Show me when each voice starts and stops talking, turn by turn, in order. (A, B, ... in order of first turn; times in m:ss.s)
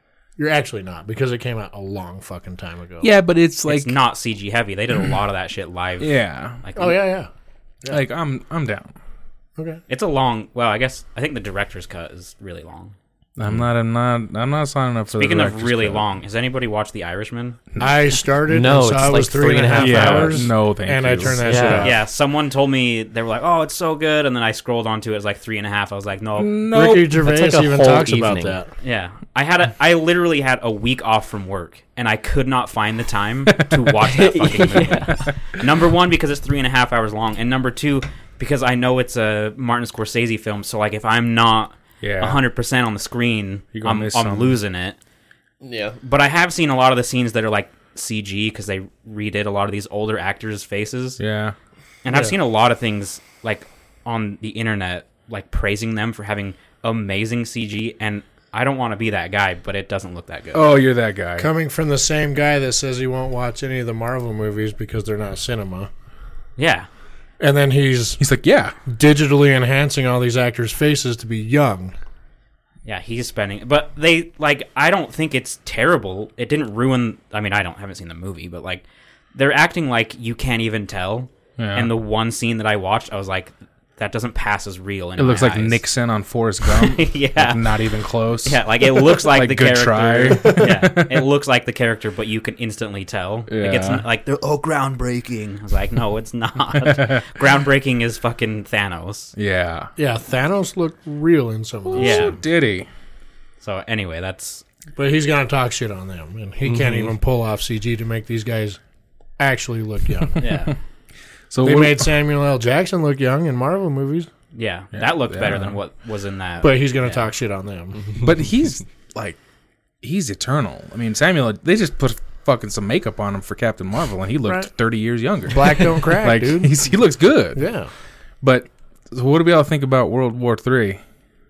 0:00.4-0:03.1 A
0:03.0-0:04.0 B
0:03.7-0:07.0 C
0:06.0-0:06.6 B
0:06.8-0:07.3 A
0:07.9-0:08.9 B
0:09.6-0:09.8 A
0:09.9-0:12.9 C
0:13.4-0:16.0 B
0:15.1-0:17.6 C
0:17.8-0:22.0 A
0:18.5-0:20.4 D
0:19.8-0:21.8 B
0:21.4-0:21.9 D
0:21.8-0:26.5 C
0:26.4-0:27.2 B
0:26.7-0:28.7 A
0:27.2-0:28.6 D
0:28.8-0:45.0 C
0:33.6-0:33.9 B
0:34.0-0:35.3 D
0:42.0-0:42.4 B
0:43.7-0:44.6 B
0:45.6-0:46.0 D
0:46.0-0:51.2 C
0:51.2-0:51.6 B
0:52.0-1:00.7 C
1:00.5-1:01.5 B
1:01.4-1:05.9 A
1:06.6-1:06.9 C
1:07.4-1:08.2 A
1:08.2-1:08.8 B
1:08.8-1:11.9 A
1:12.8-1:18.8 C
1:19.3-1:25.8 C
1:21.6-1:21.9 B
1:25.2-1:31.3 B
1:26.6-1:27.9 C
1:28.4-1:39.3 C
1:33.5-1:34.0 B
1:36.8-1:37.2 B
1:39.4-1:39.9 B
1:40.0-1:42.4 A
1:41.9-1:42.9 B
1:41.9-1:42.4 C
1:43.6-1:44.6 C
1:45.0-1:48.8 A
1:49.4-1:50.4 A
1:50.4-1:50.8 C
1:50.4-1:50.7 B
1:51.5-1:52.1 B
1:51.6-1:54.3 A
1:54.5-1:57.2 C
1:55.0-1:55.8 B
1:56.6-1:58.0 A
1:58.2-1:59.4 B
2:00.0-2:07.7 B
2:05.5-2:06.8 A
2:07.5-2:07.9 A
2:08.4-2:11.0 B